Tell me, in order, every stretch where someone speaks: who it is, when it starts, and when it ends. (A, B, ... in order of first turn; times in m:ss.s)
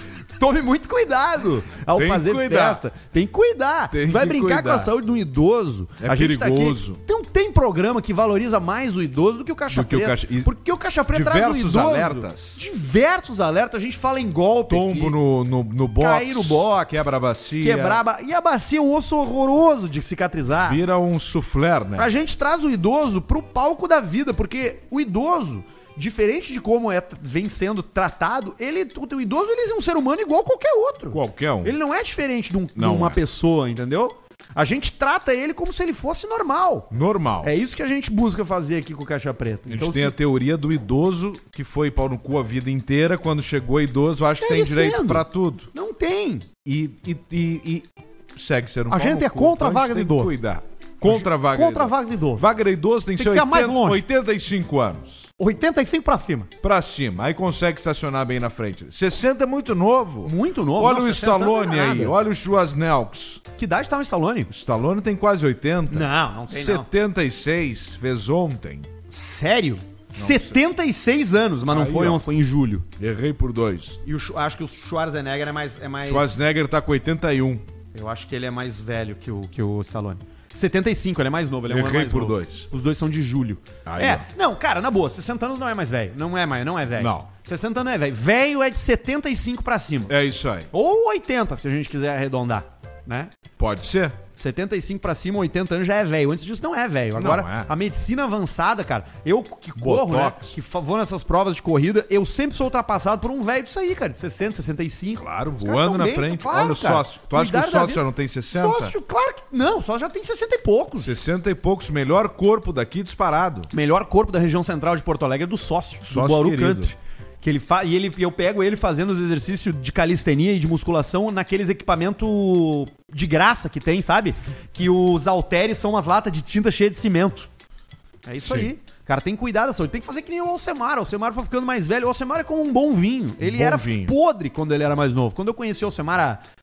0:00.3-0:15.2 A
0:01.9-0:02.8 B
0:03.9-0:04.9 B
0:06.0-0:07.0 B
0:09.7-0:10.5 B
0:11.1-0:12.6 B
0:14.7-0:18.0 B
0:16.0-0:20.8 A
0:20.6-0:22.1 B
0:22.0-0:36.9 A
0:31.1-0:31.7 B
0:32.8-0:33.2 B
0:36.9-0:37.5 B
0:37.4-0:40.1 A
0:39.7-0:45.7 B
0:44.3-0:46.5 A
0:46.6-0:55.3 B
0:48.9-0:50.3 A
0:51.0-0:52.5 A
0:53.2-0:54.0 A
0:55.4-0:56.5 A
0:56.6-1:03.4 B
1:00.2-1:02.2 A
1:03.6-1:04.5 A
1:04.5-1:08.9 B
1:05.9-1:06.9 A
1:09.1-1:12.9 A
1:10.1-1:10.6 B
1:11.7-1:12.2 B
1:13.0-1:14.0 B
1:14.0-1:16.5 A
1:16.0-1:17.6 B
1:17.9-1:30.1 A
1:21.7-1:22.7 B
1:23.8-1:24.3 B
1:27.0-1:27.3 B
1:30.1-1:30.7 B
1:30.7-1:33.3 A
1:33.6-1:34.2 B
1:34.4-1:51.2 A
1:37.2-1:37.7 B
1:39.8-1:40.6 B
1:45.2-1:48.9 B
1:51.0-1:53.7 B
1:53.7-2:07.5 A
1:56.0-1:56.9 B
2:08.2-2:16.4 A
2:08.4-2:08.7 B
2:13.4-2:14.1 B